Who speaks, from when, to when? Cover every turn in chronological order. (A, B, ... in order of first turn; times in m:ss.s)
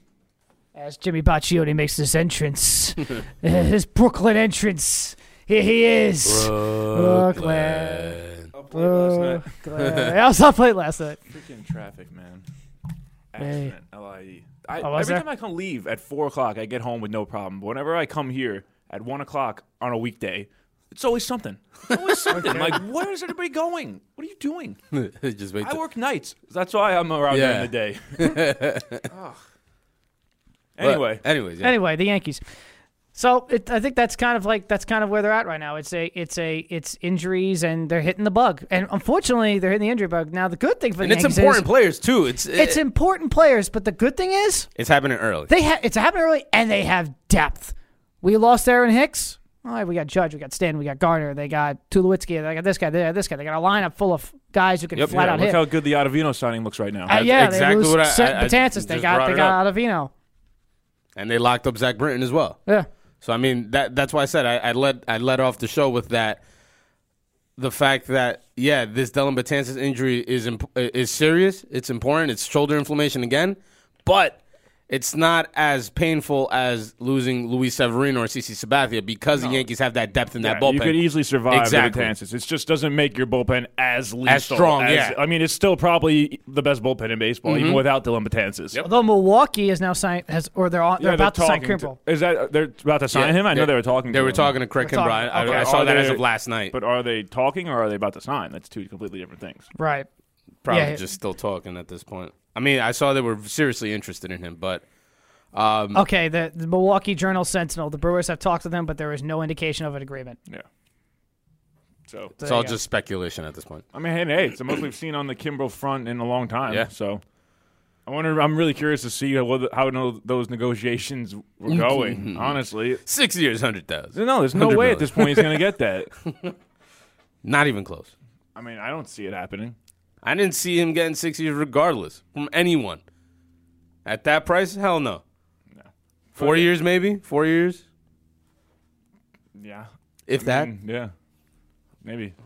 0:00.8-0:08.2 A
0:06.2-0:08.5 B
0:08.5-0:09.5 C
0:08.7-0:11.2 A
0:09.8-0:10.1 B
0:11.3-0:12.4 C
0:13.3-0:24.8 C
0:13.4-0:13.7 A
0:14.8-0:15.2 A
0:22.3-0:22.7 A
0:24.9-0:25.8 B
0:25.6-0:28.4 C
0:27.3-0:29.1 B
0:29.1-0:29.4 C
0:30.8-0:31.2 C
0:30.8-0:31.8 B
0:31.6-0:32.4 A
0:33.2-0:41.6 A
0:41.0-0:42.8 B
0:42.5-0:44.7 A
0:44.8-0:45.5 B
0:45.5-0:55.6 A
0:55.0-0:55.2 B
0:55.1-0:57.2 C
0:57.1-1:00.1 A
0:57.1-0:59.6 B
1:01.2-1:02.6 B
1:03.2-1:06.4 B
1:07.6-1:22.1 B
1:20.4-1:28.8 C
1:24.2-1:25.2 B
1:27.4-1:27.8 B
1:28.8-1:32.0 A
1:31.0-1:34.6 C
1:33.1-1:36.7 B
1:34.8-1:35.7 A
1:35.4-1:39.7 C
1:39.8-1:40.1 A
1:40.6-1:44.8 B
1:40.7-1:41.0 A
1:45.5-1:46.0 B
1:45.9-1:50.4 A
1:52.1-1:52.3 C
1:52.4-1:52.8 A
1:52.4-1:53.8 B
1:53.9-1:57.2 C
1:58.1-2:03.0 C
2:01.7-2:05.7 B
2:04.1-2:06.1 C
2:07.4-2:08.1 B
2:08.6-2:09.8 C
2:10.2-2:13.0 B
2:14.0-2:15.2 B
2:15.8-2:16.7 C
2:16.4-2:17.8 B
2:19.6-2:21.1 C
2:20.3-2:20.7 B
2:22.0-2:22.4 C